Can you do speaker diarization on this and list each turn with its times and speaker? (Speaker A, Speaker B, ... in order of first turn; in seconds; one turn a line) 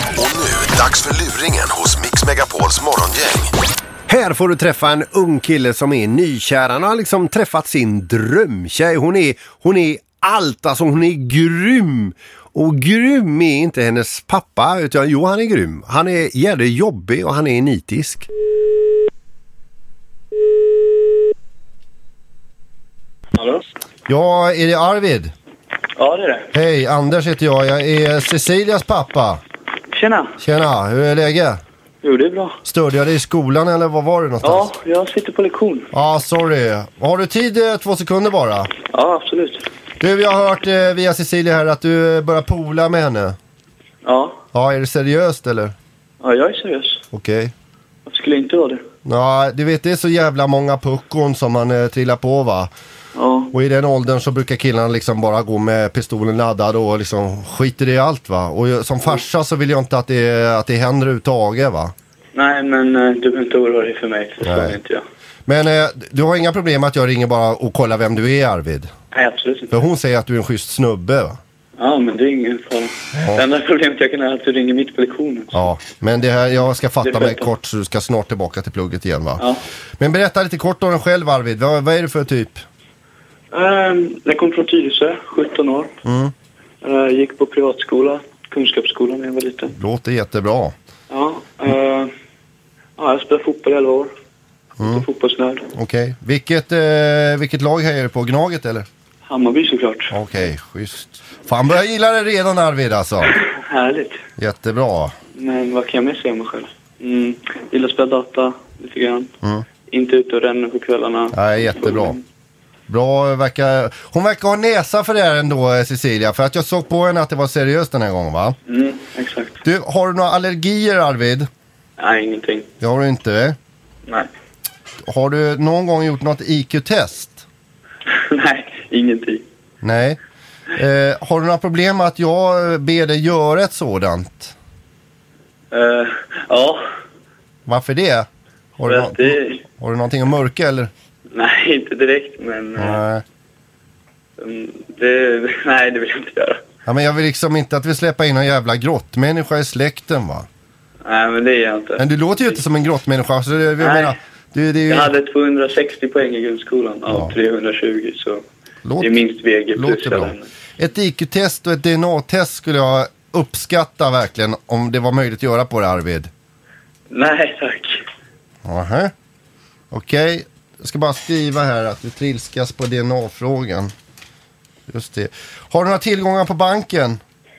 Speaker A: 0.2-3.5
Speaker B: 4.1-18.2
Speaker C: 14.2-14.7
Speaker C: 15.4-18.2
Speaker D: 23.4-23.6
Speaker C: 24.1-25.3
Speaker D: 26.0-26.5
Speaker C: 26.5-29.4
Speaker D: 29.9-30.3
Speaker C: 30.4-31.6
Speaker D: 32.0-32.6
Speaker C: 32.6-34.7
Speaker D: 34.4-35.9
Speaker C: 35.9-38.7
Speaker D: 38.9-39.7
Speaker C: 40.0-43.4
Speaker D: 44.0-44.4
Speaker C: 44.5-45.7
Speaker D: 46.2-47.0
Speaker C: 47.1-47.5
Speaker D: 48.0-48.8
Speaker C: 49.0-52.7
Speaker D: 53.1-53.5
Speaker C: 53.5-61.9
Speaker D: 62.3-65.0
Speaker C: 64.4-64.8
Speaker C: 65.5-68.9
Speaker D: 69.1-69.8
Speaker C: 69.7-71.4
Speaker D: 71.8-75.6
Speaker C: 75.5-79.4
Speaker D: 77.0-77.5
Speaker C: 80.0-82.6
Speaker D: 83.5-85.9
Speaker C: 86.0-86.3
Speaker D: 86.8-89.7
Speaker C: 89.7-90.7
Speaker D: 91.1-92.1
Speaker D: 93.0-94.1
Speaker C: 94.8-95.0
Speaker D: 94.8-95.7
Speaker C: 95.7-98.9
Speaker D: 99.2-100.1
Speaker C: 100.1-103.3
Speaker D: 103.5-104.2
Speaker C: 104.4-105.1
Speaker D: 105.4-109.3
Speaker D: 109.9-112.2
Speaker C: 111.3-112.2
Speaker C: 112.9-118.5
Speaker D: 118.7-119.5
Speaker C: 119.6-121.5
Speaker D: 122.0-122.7
Speaker C: 122.8-123.6
Speaker C: 125.1-127.4
Speaker D: 128.1-129.4
Speaker C: 129.8-130.2
Speaker C: 130.7-134.5
Speaker D: 135.7-136.8
Speaker C: 137.7-138.3
Speaker C: 138.8-140.9
Speaker D: 138.8-139.6
Speaker D: 141.3-143.0
Speaker C: 142.8-143.2
Speaker D: 144.4-146.6
Speaker C: 146.8-150.5
Speaker D: 151.0-152.1
Speaker C: 152.0-155.1
Speaker D: 153.8-154.1
Speaker D: 154.9-158.4
Speaker C: 157.1-157.3
Speaker C: 158.8-159.2
Speaker D: 159.0-160.5
Speaker C: 159.7-166.3
Speaker D: 167.1-168.0
Speaker C: 168.6-169.1
Speaker C: 169.9-173.9
Speaker C: 174.9-177.2